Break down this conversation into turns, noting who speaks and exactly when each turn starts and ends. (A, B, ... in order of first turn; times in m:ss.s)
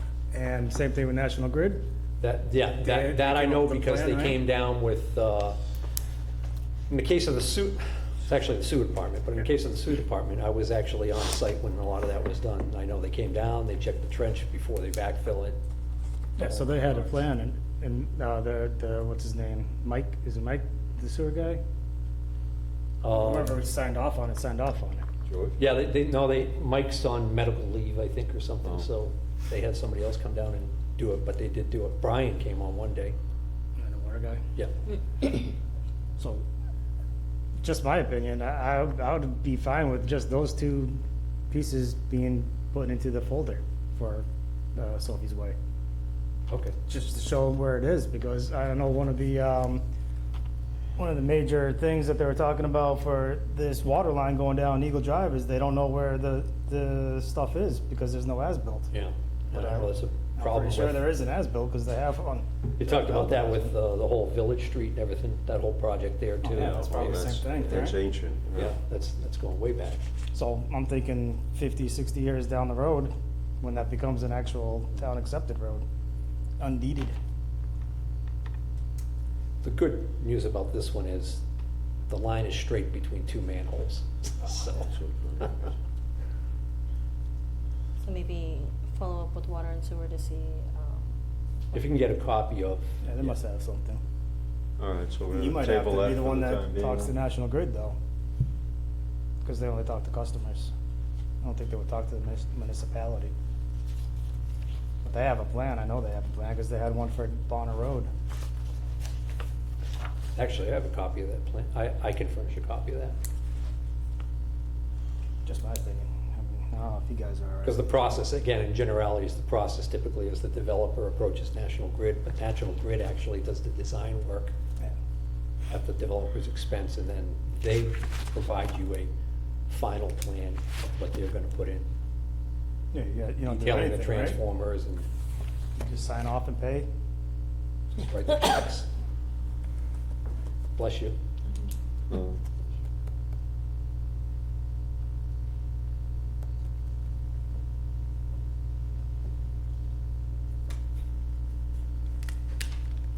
0:00.3-0:01.8 A
0:02.2-0:05.6 B
0:02.8-0:04.4 A
0:06.9-0:15.6 B
0:16.4-0:17.1 B
0:16.4-0:21.6 A
0:23.0-0:23.6 B
0:23.1-0:25.0 A
0:25.2-0:25.6 C
0:25.6-0:33.2 B
0:33.8-0:34.4 A
0:36.2-0:36.4 A
0:37.6-0:41.0 A
0:41.5-0:45.6 A
0:46.5-0:46.7 B
0:46.9-0:49.8 A
0:51.0-0:58.9 A
0:58.9-1:01.0 B
0:59.5-1:03.7 A
1:02.8-1:07.3 B
1:06.4-1:08.0 A
1:06.6-1:08.8 C
1:08.6-1:10.0 B
1:10.3-1:15.9 A
1:16.6-1:17.1 A
1:19.6-1:21.4 B
1:22.1-1:24.9 B
1:24.8-1:25.7 C
1:28.0-1:31.0 D
1:31.7-1:33.3 B
1:33.0-1:34.0 A
1:34.8-1:37.1 C
1:35.3-1:38.0 A
1:39.4-1:40.7 A
1:41.4-1:43.3 A
1:45.0-1:48.1 A
1:50.3-1:53.2 B
1:55.4-1:57.9 A
1:57.6-2:04.5 B
2:05.7-2:09.1 B
2:09.7-2:11.9 B
2:12.9-2:14.4 A
2:13.5-2:15.1 B
2:15.8-2:16.9 A
2:17.9-2:18.9 B
2:20.8-2:21.2 B
2:22.1-2:22.4 C